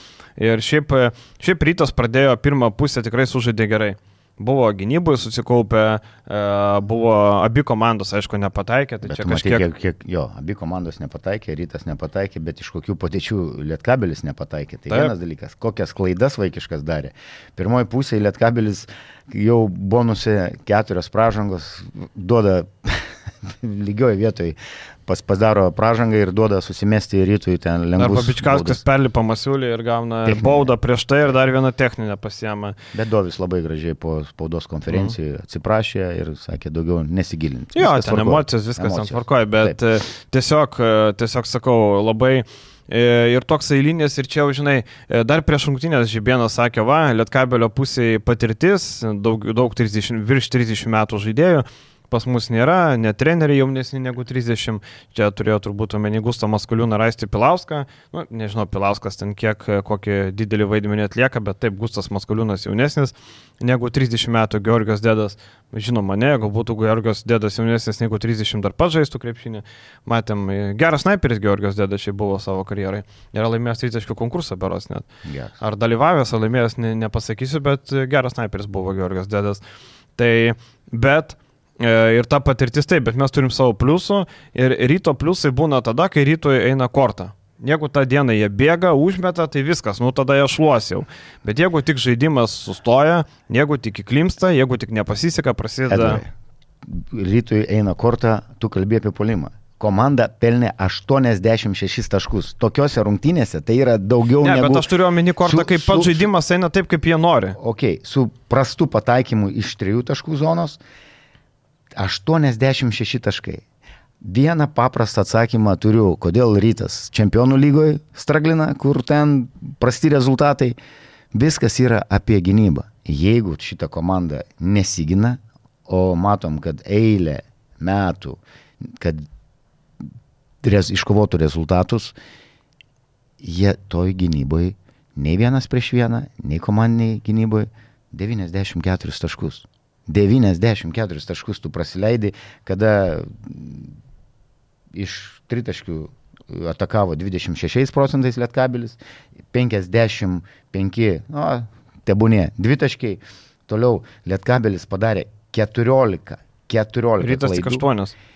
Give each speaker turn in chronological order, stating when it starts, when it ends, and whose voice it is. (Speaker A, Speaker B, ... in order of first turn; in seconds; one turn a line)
Speaker A: 0.4-9.7
Speaker B: 9.1-28.8
Speaker A: 28.0-32.8
Speaker B: 30.2-30.7
Speaker B: 32.9-39.8
Speaker A: 34.9-35.1
Speaker A: 37.8-75.1
Speaker B: 75.3-75.6
Speaker A: 75.6-79.6
Speaker A: 80.2-96.2
Speaker B: 95.9-96.3
Speaker B: 96.8-104.9
Speaker A: 104.4-107.6
Speaker B: 105.4-106.3
Speaker B: 107.6-110.8
Speaker B: 111.9-113.6
Speaker B: 114.2-120.8
Speaker B: 121.3-129.2
Speaker B: 130.6-132.2
Speaker B: 133.4-143.9
Speaker B: 144.9-149.0
Speaker B: 149.5-157.8
Speaker A: 157.2-158.1